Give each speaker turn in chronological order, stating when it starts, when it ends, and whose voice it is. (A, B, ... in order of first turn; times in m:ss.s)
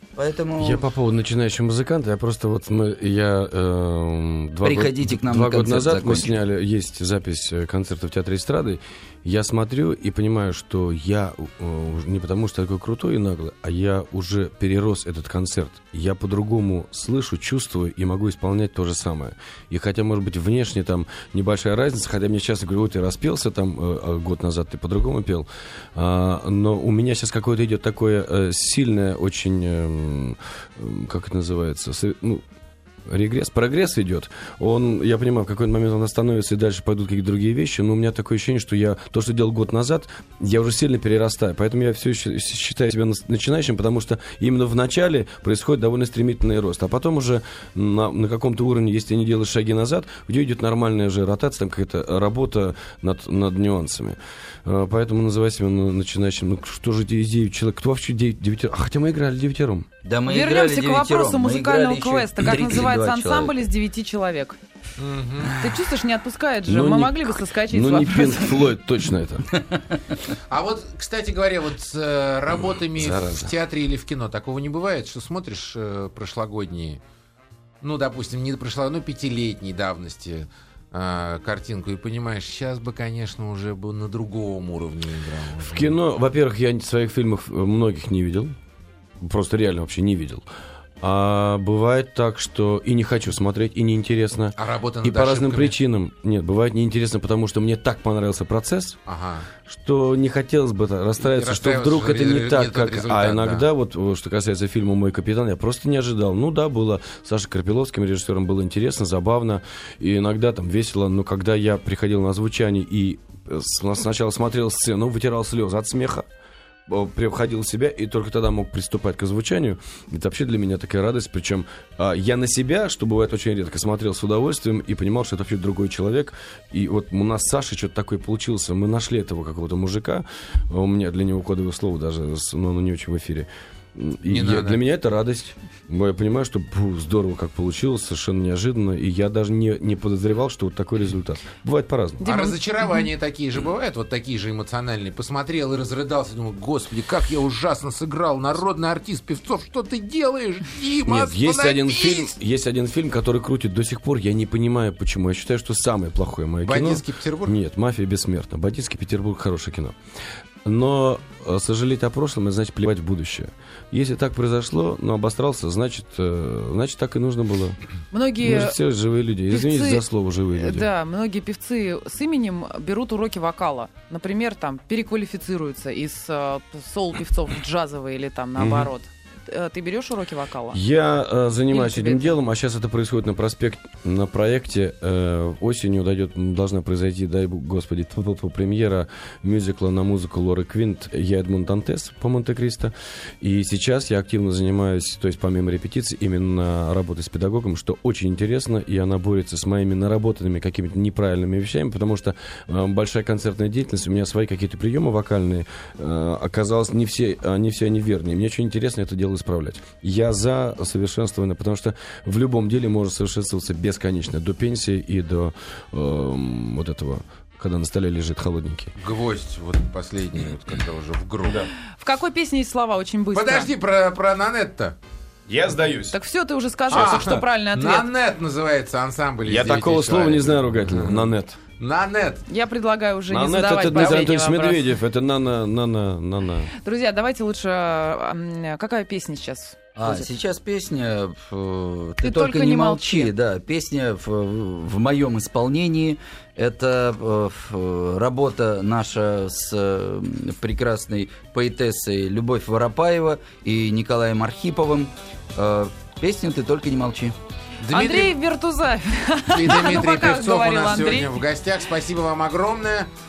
0:00.2-0:00.8 A
0:00.6-0:32.4 B
0:04.6-0:06.3 A
0:33.0-0:59.9 B
1:00.0-1:03.6 A
1:00.3-1:04.6 C
1:05.0-1:05.6 D
1:05.5-1:08.7 C
1:06.7-1:09.6 B
1:10.5-1:17.0 D
1:12.7-1:13.5 B
1:17.8-1:26.0 D
1:25.6-1:28.6 B
1:29.2-1:30.4 B
1:31.0-1:39.0 B
1:34.6-1:35.8 D
1:39.1-1:39.5 D
1:39.6-1:56.3 B
1:41.2-1:43.7 D
1:56.9-2:22.3 B
2:14.3-2:14.8 D
2:22.2-2:23.1 C
2:22.2-2:32.3 D
2:31.1-2:40.0 B
2:36.6-2:37.6 D
2:40.6-2:47.8 B
2:48.1-2:48.8 C
2:48.4-2:50.9 B
2:49.5-3:00.8 C
2:58.6-2:58.9 B
3:00.7-3:39.0 B
3:01.7-3:02.4 C
3:39.0-3:41.7 D
3:42.0-3:43.7 C
3:43.3-3:45.0 D
3:45.5-3:46.2 B
3:46.1-3:48.1 C
3:46.9-3:51.3 D
3:46.9-3:47.4 B
3:49.4-3:51.6 B
3:51.8-3:52.5 D
3:52.5-3:54.9 C
3:53.3-3:56.7 B
3:56.7-4:00.3 C
4:00.0-4:17.4 A
4:02.2-4:03.3 C
4:17.8-4:18.4 D
4:17.9-4:21.4 C
4:19.5-4:23.1 D